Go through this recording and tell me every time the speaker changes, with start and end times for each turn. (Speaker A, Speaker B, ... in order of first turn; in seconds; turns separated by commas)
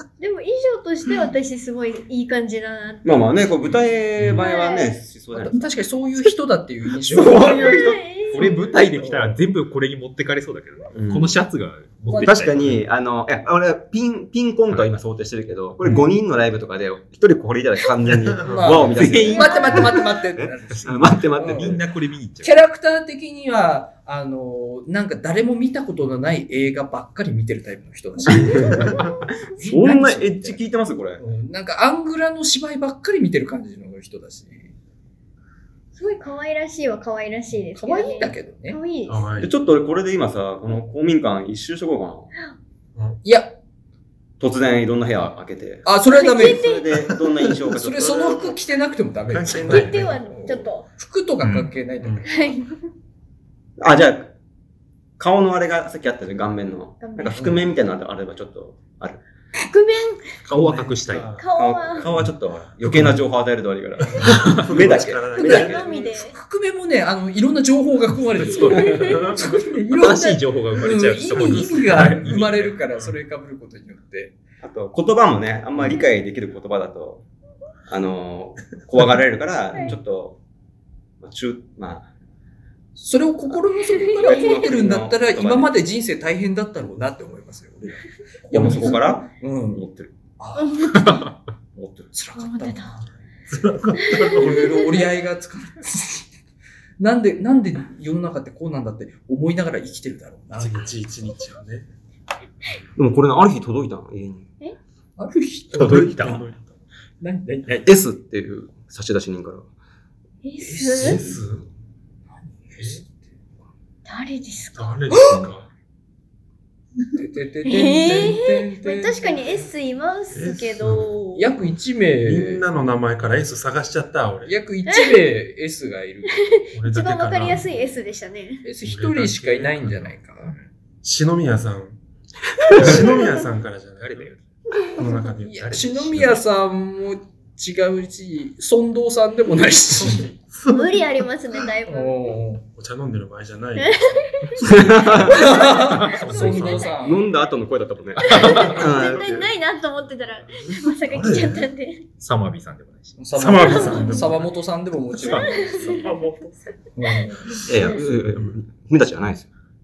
Speaker A: 0.2-3.3, Speaker B: 3.0-5.7, Speaker C: 4.2-4.5, Speaker A: 4.3-4.9, Speaker D: 5.3-7.7, Speaker B: 7.1-8.7, Speaker A: 7.4-8.5, Speaker E: 8.3-12.8, Speaker D: 8.9-9.3, Speaker B: 10.9-11.4, Speaker D: 12.1-12.5, Speaker B: 12.2-21.8, Speaker C: 18.1-18.9, Speaker D: 18.4-21.8, Speaker E: 18.9-19.9, Speaker A: 19.2-20.1, Speaker E: 20.9-22.6, Speaker D: 22.4-29.0, Speaker B: 28.3-31.2, Speaker A: 28.9-29.2, Speaker D: 29.6-30.6, Speaker D: 31.2-34.7, Speaker A: 36.0-39.3, Speaker D: 37.8-38.8, Speaker C: 39.1-39.5, Speaker B: 39.4-42.3, Speaker D: 43.2-43.6, Speaker B: 44.4-48.3, Speaker D: 45.9-46.7, Speaker A: 46.1-47.0, Speaker C: 47.1-48.6, Speaker D: 47.7-50.0, Speaker C: 49.3-50.4, Speaker A: 49.7-50.9, Speaker D: 51.0-52.3, Speaker C: 51.4-52.3, Speaker A: 52.2-52.8, Speaker B: 53.8-54.3, Speaker B: 55.2-59.2, Speaker A: 57.0-57.4, Speaker A: 59.6-60.3, Speaker E: 60.5-61.3, Speaker C: 60.5-61.5, Speaker A: 61.4-62.1, Speaker B: 61.6-65.8, Speaker C: 62.9-63.1, Speaker C: 64.1-65.9, Speaker E: 64.2-64.7, Speaker A: 65.3-66.3, Speaker D: 65.4-74.3, Speaker C: 68.5-69.5, Speaker A: 68.7-69.4, Speaker E: 70.0-72.8, Speaker C: 71.3-72.5, Speaker B: 74.6-77.2, Speaker B: 77.9-80.4, Speaker B: 81.2-82.1, Speaker D: 83.0-89.9, Speaker B: 83.5-85.7, Speaker B: 88.5-90.1, Speaker D: 90.4-91.1, Speaker A: 90.6-91.3, Speaker E: 91.0-91.3, Speaker B: 91.8-92.1, Speaker D: 92.1-93.0, Speaker A: 92.4-93.0, Speaker C: 93.5-94.8, Speaker A: 94.0-95.1, Speaker D: 94.3-96.3, Speaker D: 97.0-100.9, Speaker C: 100.6-101.9, Speaker B: 103.0-104.5, Speaker D: 105.2-106.4, Speaker C: 105.8-106.5, Speaker E: 105.8-106.5, Speaker D: 107.2-107.8, Speaker B: 107.8-109.7, Speaker A: 110.4-111.2, Speaker D: 110.6-111.4, Speaker C: 111.0-111.6, Speaker D: 112.7-113.1, Speaker A: 114.1-114.9, Speaker C: 114.8-115.7, Speaker D: 115.1-115.5, Speaker D: 117.2-119.4, Speaker A: 117.7-121.5, Speaker C: 120.3-121.1, Speaker D: 121.3-122.7, Speaker C: 122.2-124.5, Speaker D: 124.4-126.4, Speaker A: 124.9-125.1, Speaker A: 126.4-128.7, Speaker C: 126.7-127.7, Speaker D: 128.6-130.6, Speaker C: 128.8-130.1, Speaker C: 131.0-132.0, Speaker C: 132.7-134.3, Speaker E: 134.0-134.4, Speaker C: 134.9-135.8, Speaker D: 135.4-140.3, Speaker E: 135.6-136.4, Speaker C: 140.0-141.0, Speaker A: 140.7-142.2, Speaker D: 141.9-142.7, Speaker C: 142.8-144.0, Speaker A: 143.8-147.0, Speaker B: 144.6-145.6, Speaker D: 145.3-147.2, Speaker E: 145.9-146.8, Speaker C: 146.2-146.8, Speaker B: 146.9-149.2, Speaker E: 148.3-148.7, Speaker A: 148.3-152.1, Speaker C: 148.4-149.5, Speaker C: 150.6-151.7, Speaker E: 152.2-153.2, Speaker D: 153.2-156.1, Speaker C: 153.3-154.4, Speaker A: 153.6-154.3, Speaker E: 155.2-155.6, Speaker A: 155.2-156.2, Speaker C: 155.8-156.7, Speaker D: 157.0-157.7, Speaker B: 157.7-159.5